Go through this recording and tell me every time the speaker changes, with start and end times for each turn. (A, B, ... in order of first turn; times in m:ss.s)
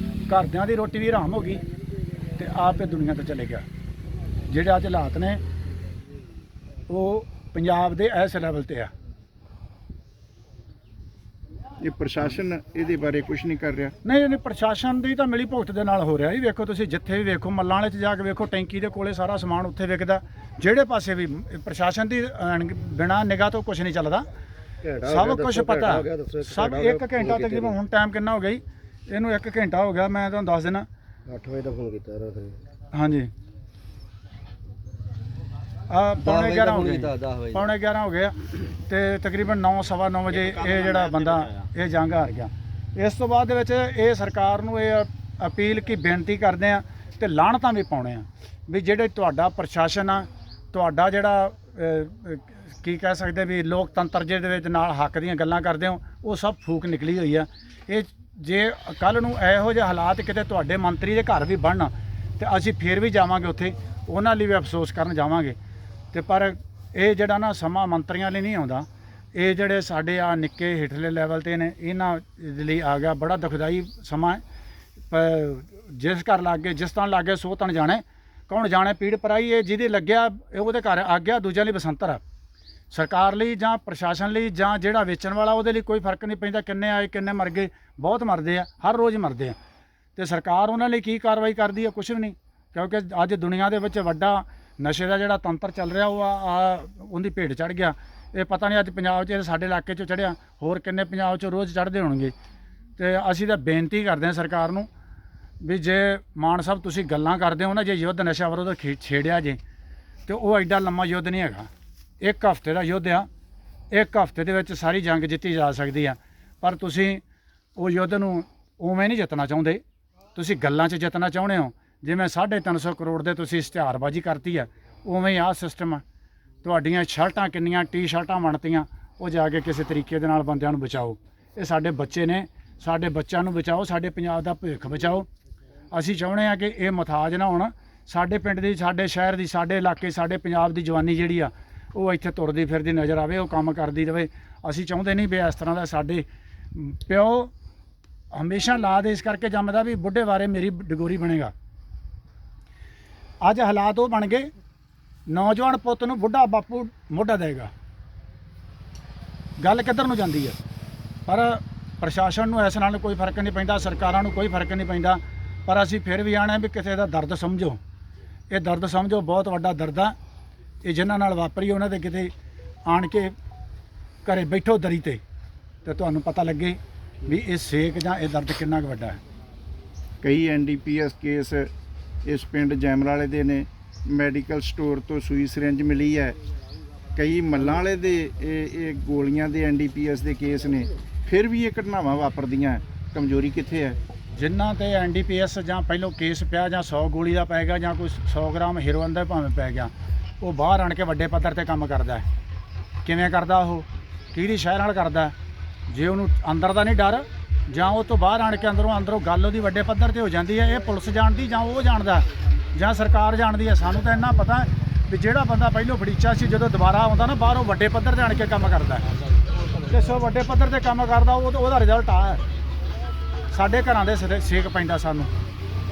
0:00.3-0:01.6 A
0:02.4-0:03.7 A
0:04.5-0:05.4 A
0:06.9-0:08.9 A
0:11.8-0:13.9 B
0:14.0-0:24.3 A
0:24.8-0:27.7 C
0:25.0-0:30.9 A
0:31.3-0:32.6 C
0:32.9-0:33.3 A
0:35.9-1:05.6 A
0:36.2-0:37.7 C
1:06.1-1:14.4 A
1:15.1-1:22.2 A
1:22.9-1:29.6 A
1:30.2-1:42.4 A
1:43.0-1:44.9 A
1:45.6-1:49.6 A
1:50.3-1:51.7 A
1:52.2-1:53.3 A
1:53.9-1:57.2 A
1:57.8-1:59.8 A
2:00.4-2:06.0 A
2:06.6-2:15.3 A
2:15.9-2:27.5 A
2:28.3-2:31.5 A
2:33.4-2:34.5 A
2:35.3-2:37.7 A
2:39.6-2:40.6 A
2:41.3-2:47.8 A
2:48.5-2:50.1 A
2:50.8-2:52.3 A
2:52.9-2:53.3 A
2:54.2-2:55.2 A
2:55.8-2:59.2 A
3:00.2-3:01.7 B
3:02.2-3:06.4 B
3:07.2-3:14.0 B
3:14.3-3:22.3 A
3:23.0-3:25.4 A
3:25.9-3:39.1 A
3:39.9-3:42.4 A
3:43.5-3:45.3 A